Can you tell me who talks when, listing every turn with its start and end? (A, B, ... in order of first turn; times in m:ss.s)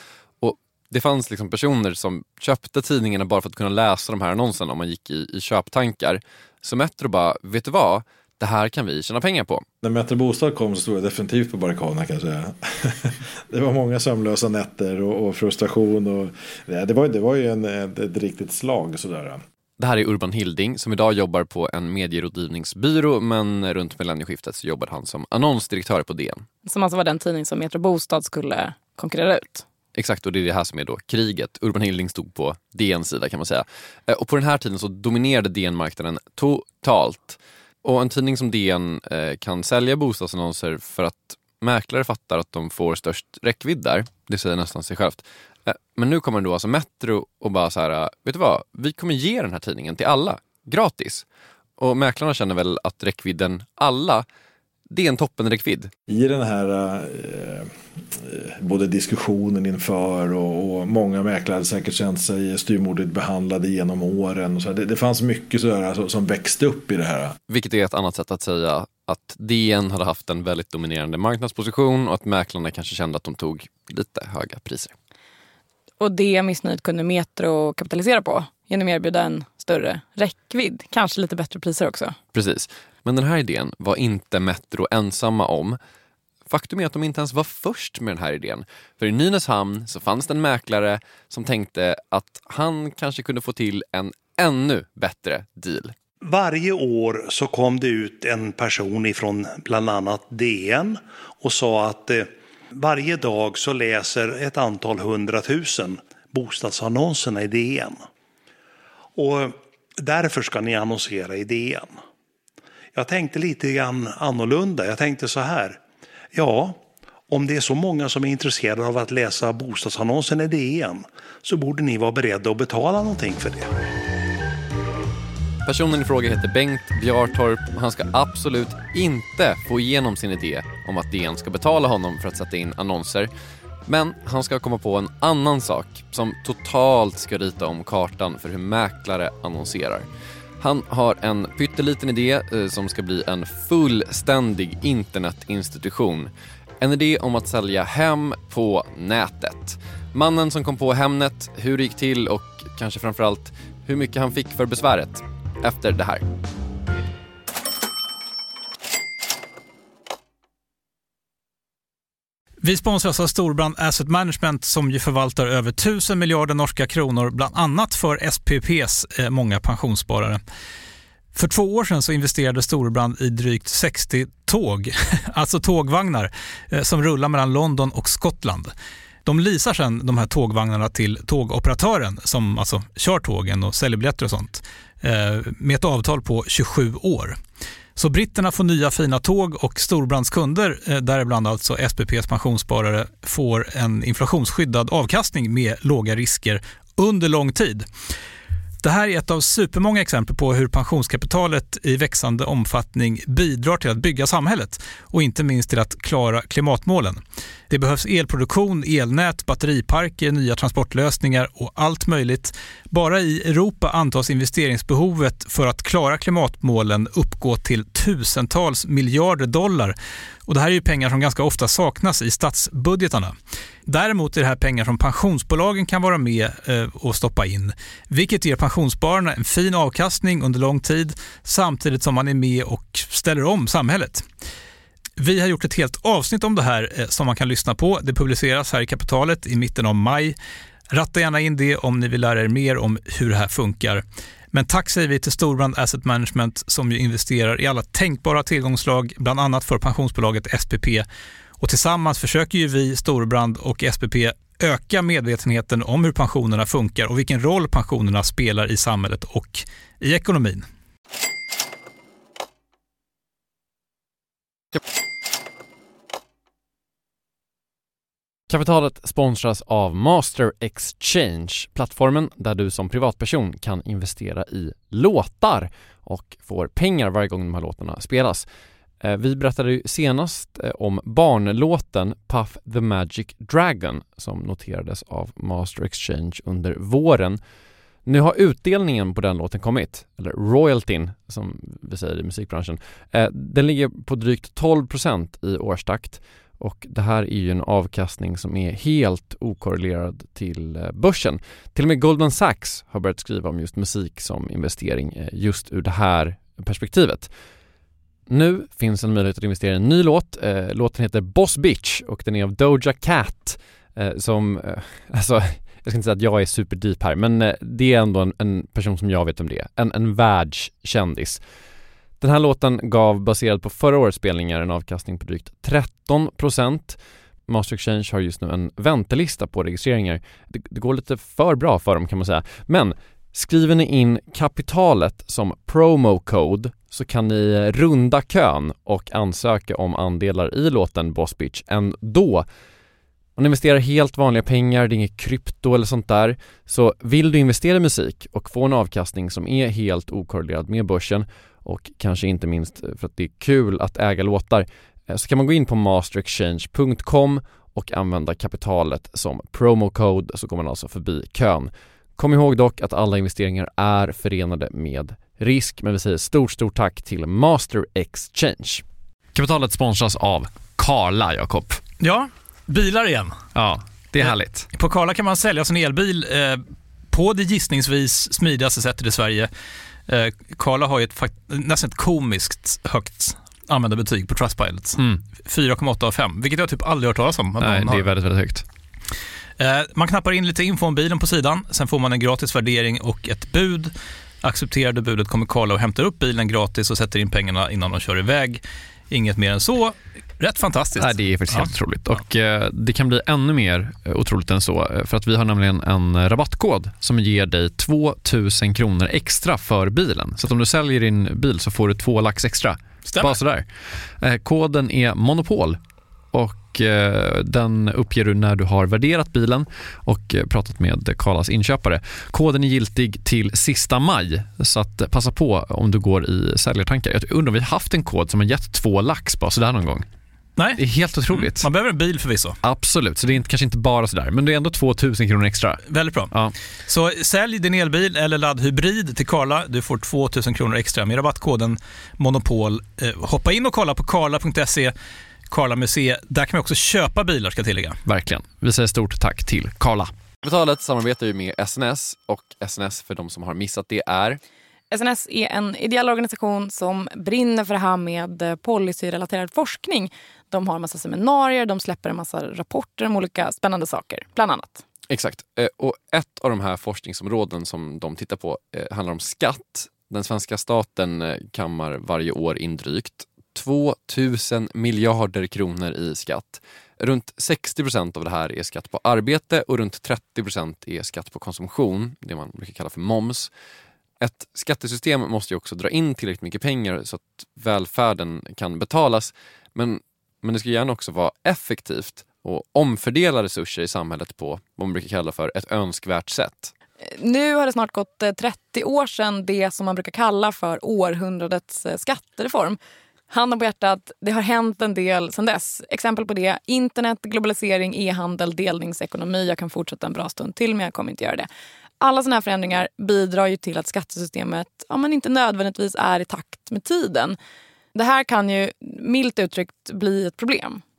0:00.4-0:09.6 A
0:09.8-0:19.4 B
0:19.8-0:26.4 A
0:26.6-0:29.6 C
0:29.9-0:51.2 A
0:51.8-0:54.2 A
0:54.9-0:55.9 A
0:56.1-1:07.4 B
1:07.5-1:14.9 A
1:16.0-1:22.2 C
1:22.3-1:25.8 A
1:26.5-1:35.9 A
1:36.2-1:48.1 D
1:49.2-1:52.0 D
1:52.9-1:55.8 D
1:56.3-2:03.7 D
2:05.6-2:13.3 A
2:13.8-2:20.1 A
2:20.6-2:36.2 A
2:42.6-2:50.4 E
2:51.3-2:58.7 E
2:59.2-3:07.4 E
3:08.0-3:17.8 E
3:18.8-3:39.9 E
3:40.5-3:43.3 E
3:43.8-3:54.2 E
3:55.2-4:00.3 E
4:00.9-4:11.0 E
4:11.6-4:20.7 E
4:28.5-4:38.5 A
4:39.0-4:47.4 A
4:48.0-5:07.3 A
5:08.3-5:21.4 A
5:22.2-5:42.4 A
5:43.4-6:11.8 A
6:12.0-6:13.4 E
6:13.5-6:14.7 A
6:14.2-6:19.5 E
6:20.1-6:28.1 E
6:27.6-6:28.6 A
6:29.6-6:41.7 E
6:41.0-6:53.7 A
6:53.1-6:53.4 E
6:54.2-6:55.8 A
6:56.3-7:10.1 A
7:10.6-7:12.6 E
7:10.8-7:11.7 A
7:12.6-7:16.5 A
7:15.9-7:16.3 E
7:16.9-7:24.9 E
7:25.5-7:28.0 E
7:28.0-7:34.4 A
7:34.9-7:44.8 C
7:45.1-8:03.5 A
8:04.2-8:16.7 A
8:17.0-8:22.8 C
8:23.3-8:31.5 C
8:32.0-8:37.4 C
8:37.9-8:40.8 C